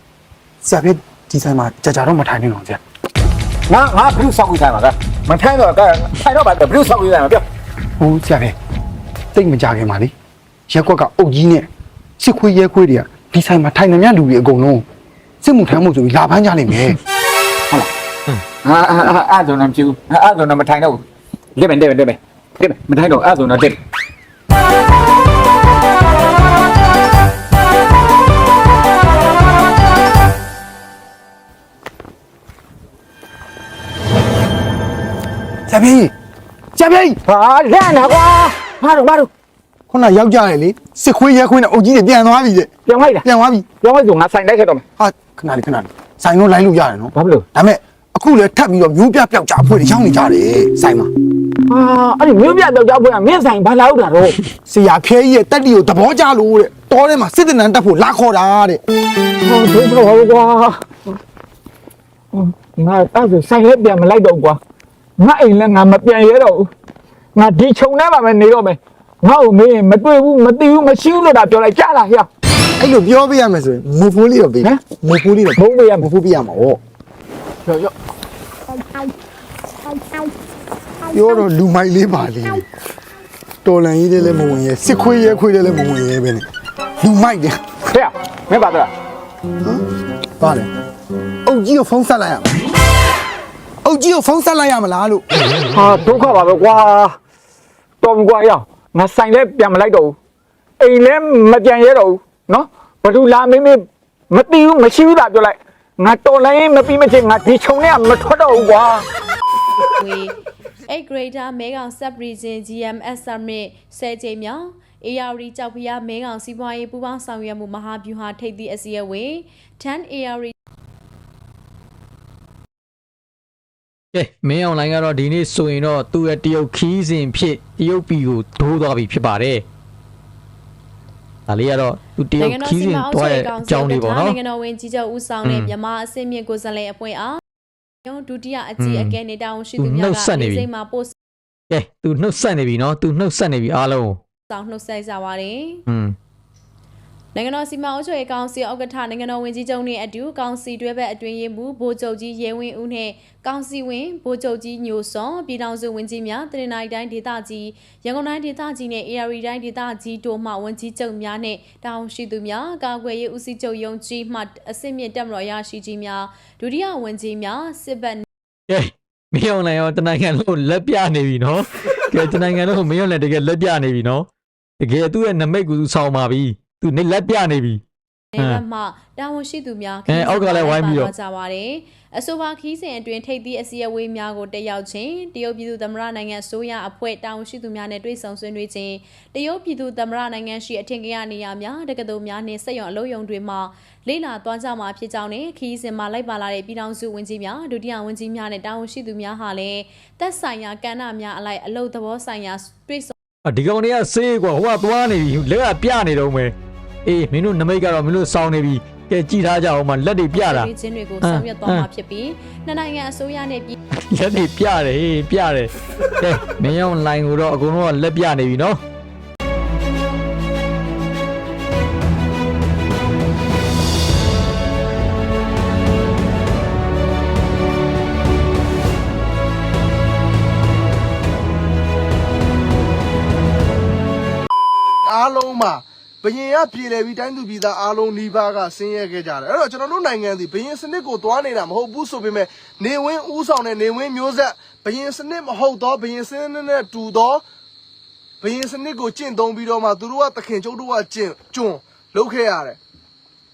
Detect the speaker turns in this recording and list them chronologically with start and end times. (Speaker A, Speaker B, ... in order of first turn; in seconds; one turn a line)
Speaker A: 0.6-2.8
Speaker B: 3.7-7.4
Speaker A: 8.0-8.6
Speaker A: 9.3-10.1
Speaker A: 10.7-14.8
Speaker A: 15.4-17.0
Speaker B: 18.6-21.0
Speaker B: 21.6-23.8
Speaker A: 35.7-36.1
Speaker A: 36.7-37.2
Speaker B: 37.2-39.3
Speaker A: 39.9-42.7
Speaker B: 42.9-43.2
Speaker A: 43.2-43.6
Speaker B: 43.8-44.8
Speaker A: 45.0-51.1
Speaker B: 47.1-47.5
Speaker B: 51.7-54.4
Speaker A: 54.6-58.8
Speaker B: 59.4-60.9
Speaker B: 62.3-64.6
Speaker B: 65.2-66.7
Speaker B: 67.3-72.3
Speaker A: 72.8-76.8
Speaker B: 75.6-76.1
Speaker B: 77.7-77.9
Speaker A: 81.1-82.6
Speaker A: 83.6-86.5
Speaker A: 87.0-87.7
Speaker B: 87.9-88.9
Speaker A: 90.4-90.7
Speaker A: 91.5-92.5
Speaker A: 93.8-95.2
Speaker B: 95.7-97.2
Speaker B: 98.0-100.2
Speaker B: 100.8-109.0
Speaker C: 110.0-110.3
Speaker C: 110.9-120.5
Speaker D: 124.1-129.6
Speaker D: 131.5-134.4
Speaker C: 132.4-137.4
Speaker D: 135.4-135.7
Speaker C: 138.1-141.1
Speaker D: 138.8-139.2
Speaker D: 139.8-140.7
Speaker D: 141.7-144.2
Speaker C: 144.5-145.8
Speaker D: 145.9-146.2
Speaker C: 147.3-168.2
Speaker D: 168.7-174.3
Speaker D: 174.8-177.8
Speaker C: 178.3-203.1
Speaker D: 180.1-181.1
Speaker D: 203.4-206.5
Speaker D: 207.0-210.7
Speaker C: 210.3-213.8
Speaker D: 211.2-211.9
Speaker D: 214.1-218.8
Speaker E: 235.1-247.4
Speaker E: 248.4-252.8